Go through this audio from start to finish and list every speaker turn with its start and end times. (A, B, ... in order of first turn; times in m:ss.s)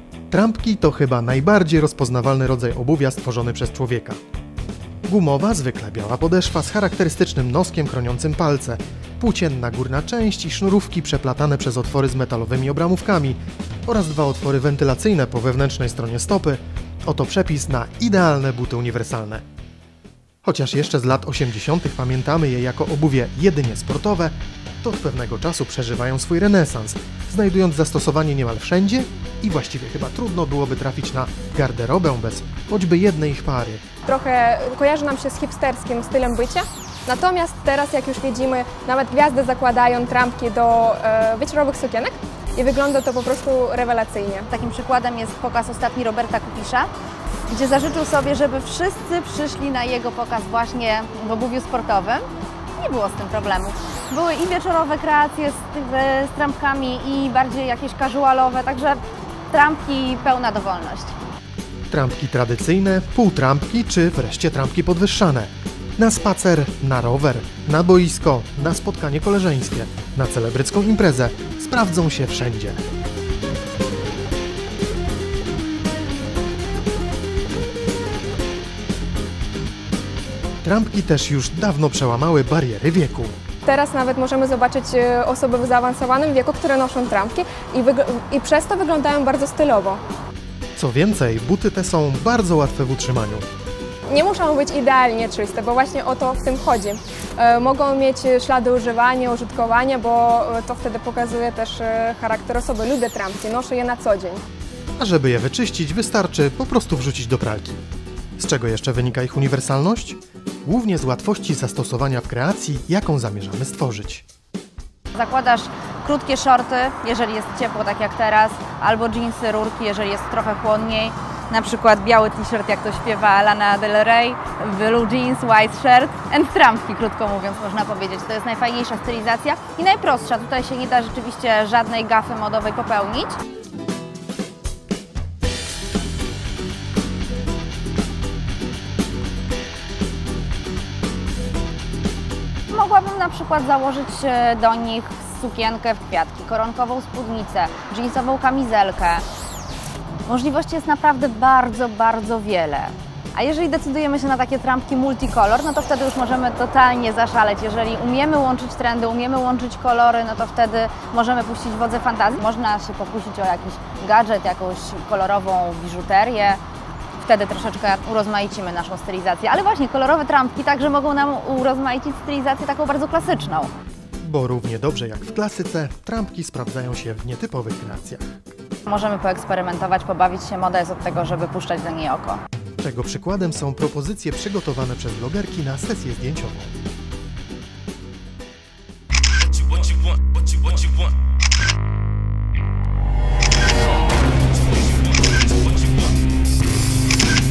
0:00.3-0:04.2 A
0:05.1-0:19.4 A
0:20.4-0:33.8 A
0:34.1-0:44.5 B
0:44.5-0:46.9 C
0:47.5-1:01.2 C
1:01.9-1:12.9 A
1:20.6-1:23.4 A
1:23.7-1:30.0 B
1:30.8-1:33.5 A
1:34.1-1:44.4 B
1:45.0-1:47.8 A
1:48.4-1:54.2 A
1:55.1-2:13.4 C
2:22.7-2:29.2 C
2:30.3-2:46.6 C
2:47.2-2:53.7 C
2:54.2-2:58.4 A
2:58.9-3:02.4 C
3:02.8-3:06.8 A